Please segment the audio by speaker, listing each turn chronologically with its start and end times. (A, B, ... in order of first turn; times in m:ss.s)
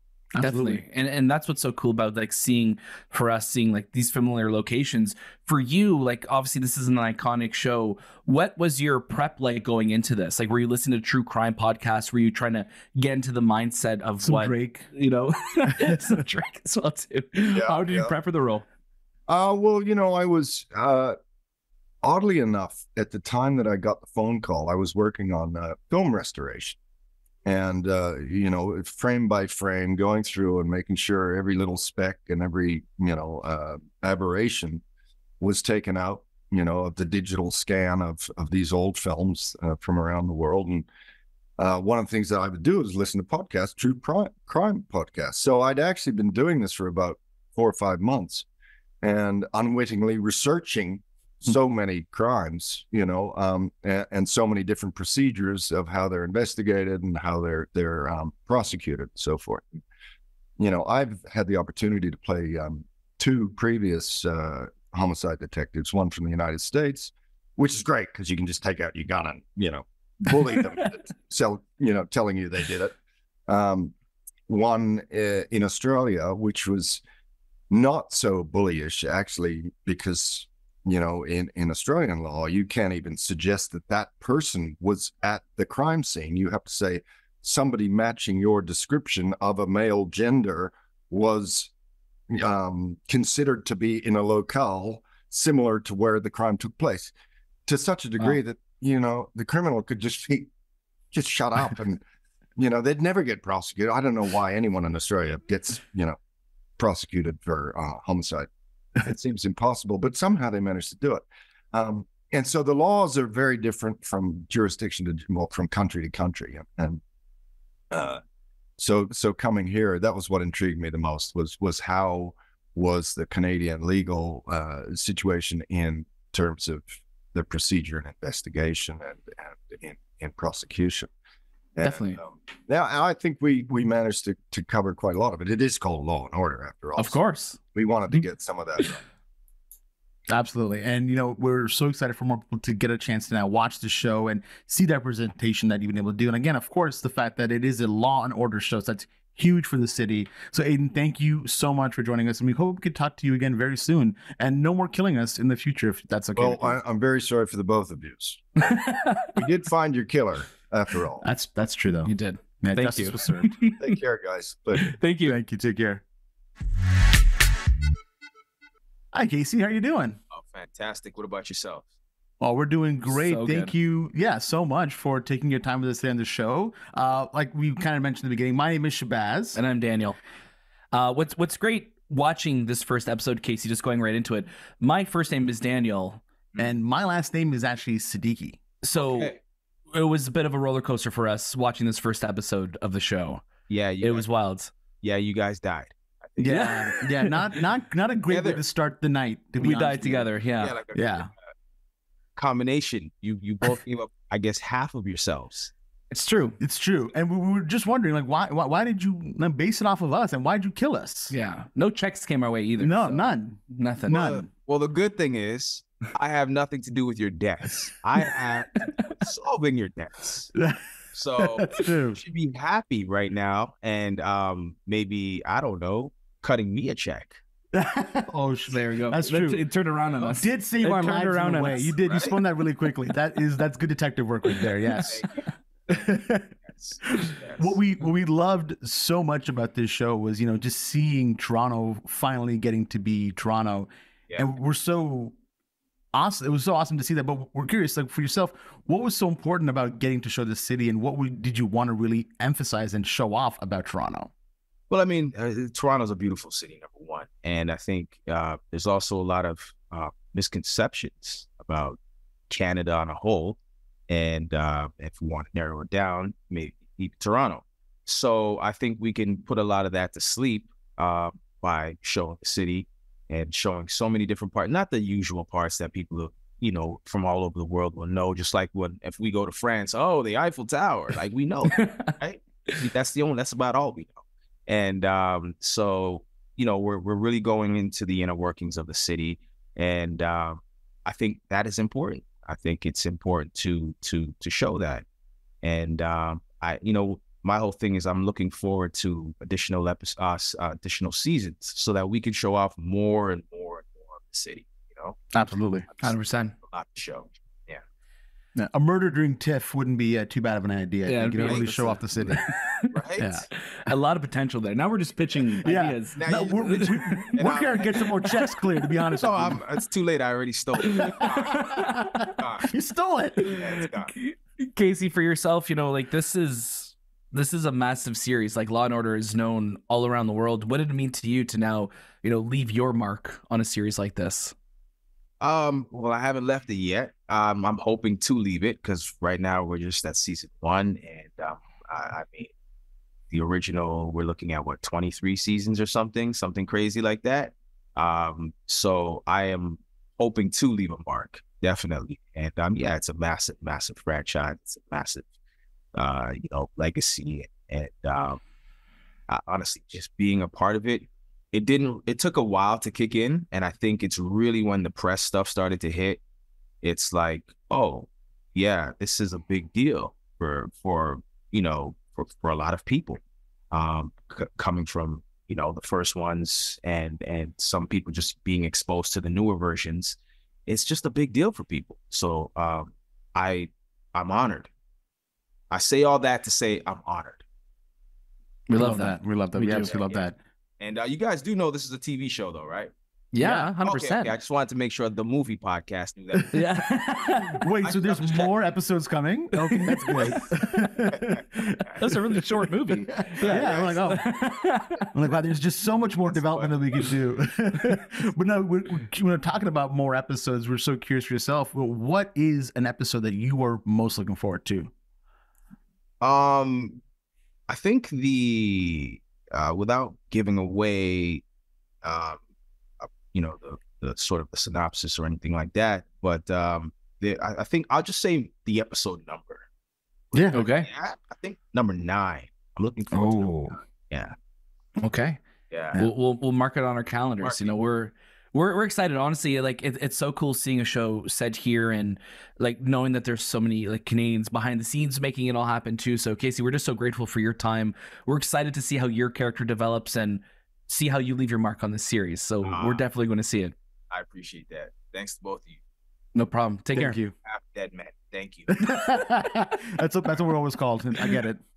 0:00.3-0:00.8 A
0:00.4-0:18.6 B
0:14.2-0:14.8 A
0:17.5-0:18.1 C
0:19.3-0:21.2 C
0:22.0-0:26.8 C
0:27.4-0:34.8 C
0:35.4-0:40.9 C
0:41.6-0:48.5 C
0:49.0-0:59.8 C
1:00.6-1:12.9 C
1:13.5-1:13.9 C
1:14.5-1:17.0 C
1:17.7-1:31.7 C
1:32.3-1:37.1 C
1:37.7-1:40.5 C
1:41.1-1:42.0 C
1:42.6-1:46.2 C
1:46.8-1:48.5 C
1:49.0-1:57.0 C
1:57.9-1:58.2 C
1:58.8-2:11.1 C
2:11.8-2:17.2 C
2:11.8-2:12.2 B
2:17.0-2:17.6 B
2:17.7-2:19.0 C
2:20.3-2:36.8 A
2:36.4-2:41.2 C
2:38.7-2:39.2 B
2:41.2-2:43.5 A
2:42.1-2:43.8 B
2:43.8-2:44.9 C
2:44.8-2:45.4 B
2:45.2-2:46.0 A
2:49.1-2:50.2 A
2:50.3-2:51.9 D
2:52.4-2:59.6 A
2:53.0-2:53.7 B
2:59.6-3:00.2 B
3:00.9-3:06.2 B
3:06.6-3:08.6 A
3:08.8-3:09.3 B
3:09.0-3:09.4 D
3:09.9-3:13.4 B
3:13.7-3:14.3 D
3:14.0-3:14.7 B
3:15.0-3:16.8 D
3:16.4-3:20.3 A
3:16.5-3:17.3 B
3:18.3-3:18.6 D
3:19.6-3:20.8 B
3:20.6-3:21.5 D
3:20.9-3:21.3 A
3:22.4-3:25.7 D
3:26.1-3:26.6 B
3:26.6-3:31.4 A
3:31.3-3:34.4 B
3:32.8-3:34.5 A
3:34.1-3:40.6 D
3:40.6-3:42.2 A
3:41.1-3:47.4 D
3:47.7-3:49.6 A
3:48.7-3:51.9 B
3:50.4-3:55.3 A
3:51.7-3:52.4 D
3:54.8-3:57.8 D
3:55.9-3:56.5 A
3:57.6-4:05.4 A
4:06.1-4:14.3 A
4:14.9-4:22.0 D
4:22.5-4:55.0 D
4:41.8-4:42.1 B
4:55.6-5:05.2 D
5:05.3-5:05.9 A
5:06.0-5:07.8 D
5:06.0-5:06.5 B
5:08.6-5:12.4 A
5:11.1-5:12.9 B
5:11.4-5:13.4 D
5:13.2-5:13.5 A
5:13.7-5:17.1 B
5:15.6-5:19.6 A
5:16.1-5:18.0 D
5:19.1-5:22.7 D
5:21.2-5:21.8 B
5:21.9-5:23.5 A
5:23.5-5:24.1 D
5:24.1-5:34.6 B
5:35.4-5:42.5 D
5:43.3-5:55.3 D
5:56.0-5:58.4 D
5:59.3-6:06.2 D
6:06.8-6:24.7 D
6:25.7-6:27.4 D
6:28.7-6:30.4 A
6:28.7-6:30.0 B
6:29.7-6:30.3 D
6:30.8-6:32.9 D
6:33.3-6:34.3 B
6:33.4-6:33.7 A
6:33.8-6:36.9 D
6:36.4-6:42.1 A
6:36.5-6:36.9 B
6:37.8-6:38.8 D
6:39.6-6:40.4 B
6:42.0-6:45.0 B
6:43.3-6:44.3 A
6:43.4-6:44.2 D
6:45.1-6:54.9 A
6:46.2-6:46.7 D
6:56.2-6:57.0 D
6:57.7-7:01.4 D
7:02.0-7:02.4 D
7:03.0-7:09.7 D
7:10.3-7:10.6 A
7:10.4-7:14.4 D
7:10.5-7:10.9 B
7:13.1-7:13.8 A
7:15.0-7:15.4 B
7:15.7-7:16.0 D
7:16.0-7:33.8 B
7:17.4-7:17.8 D
7:32.6-7:33.1 D
7:34.1-7:35.8 D
7:36.4-7:37.2 B
7:37.0-7:37.3 A
7:37.4-7:38.9 D
7:38.8-7:41.6 A